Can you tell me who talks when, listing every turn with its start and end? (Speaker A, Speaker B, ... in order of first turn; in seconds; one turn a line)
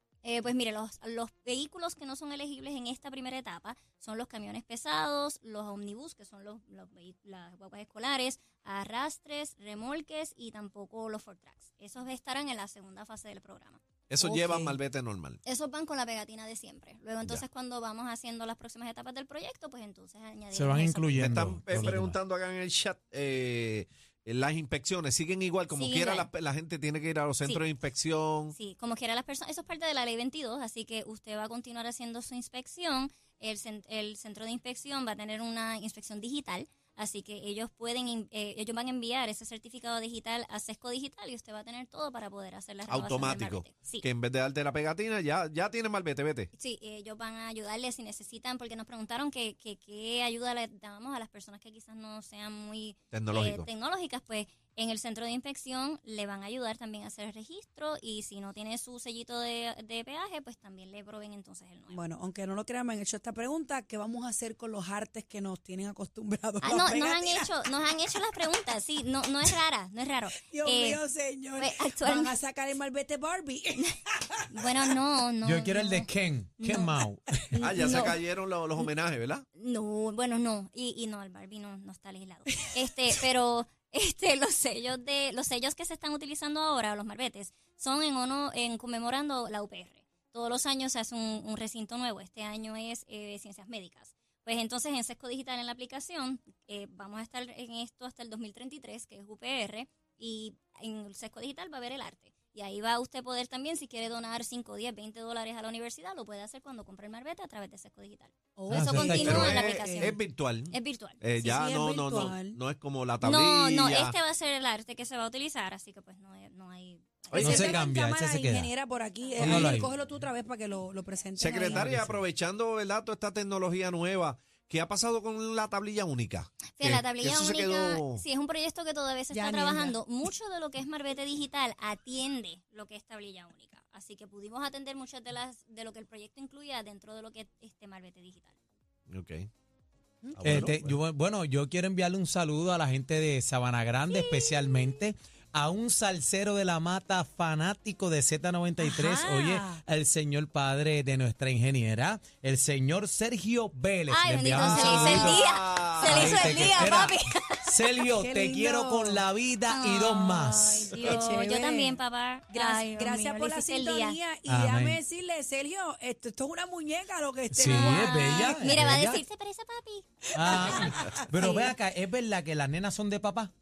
Speaker A: 0.2-14.7
Speaker B: 14.1-15.4
Speaker A: 15.4-21.2
Speaker C: 20.5-22.2
Speaker B: 21.1-28.6
Speaker A: 25.7-26.3
Speaker A: 28.5-44.0
Speaker B: 42.9-46.5
Speaker A: 46.5-62.0
Speaker B: 53.1-53.7
Speaker D: 61.9-67.5
Speaker A: 66.6-71.0
Speaker D: 70.4-74.4
Speaker A: 71.5-72.3
Speaker A: 74.5-76.9
Speaker C: 75.4-77.8
Speaker A: 77.5-78.2
Speaker B: 77.6-79.4
Speaker A: 79.5-111.2
Speaker D: 108.6-110.1
Speaker C: 108.7-109.6
Speaker B: 109.1-114.2
Speaker D: 111.4-112.6
Speaker A: 113.2-117.9
Speaker B: 117.3-117.7
Speaker D: 117.4-121.9
Speaker C: 117.4-118.7
Speaker A: 119.2-119.9
Speaker B: 119.4-119.7
Speaker C: 119.4-119.9
Speaker B: 121.4-128.2
Speaker C: 121.7-122.2
Speaker A: 126.7-138.5
Speaker D: 129.3-130.0
Speaker B: 139.1-139.5
Speaker D: 140.2-140.7
Speaker B: 140.3-141.0
Speaker C: 140.4-155.4
Speaker D: 148.8-149.8
Speaker A: 154.1-157.7
Speaker B: 154.5-156.7
Speaker C: 155.9-160.9
Speaker D: 158.2-159.3
Speaker A: 159.7-164.2
Speaker D: 160.9-168.6
Speaker C: 164.4-165.0
Speaker C: 167.5-169.2
Speaker A: 167.7-171.7
Speaker C: 170.3-173.5
Speaker D: 170.6-171.2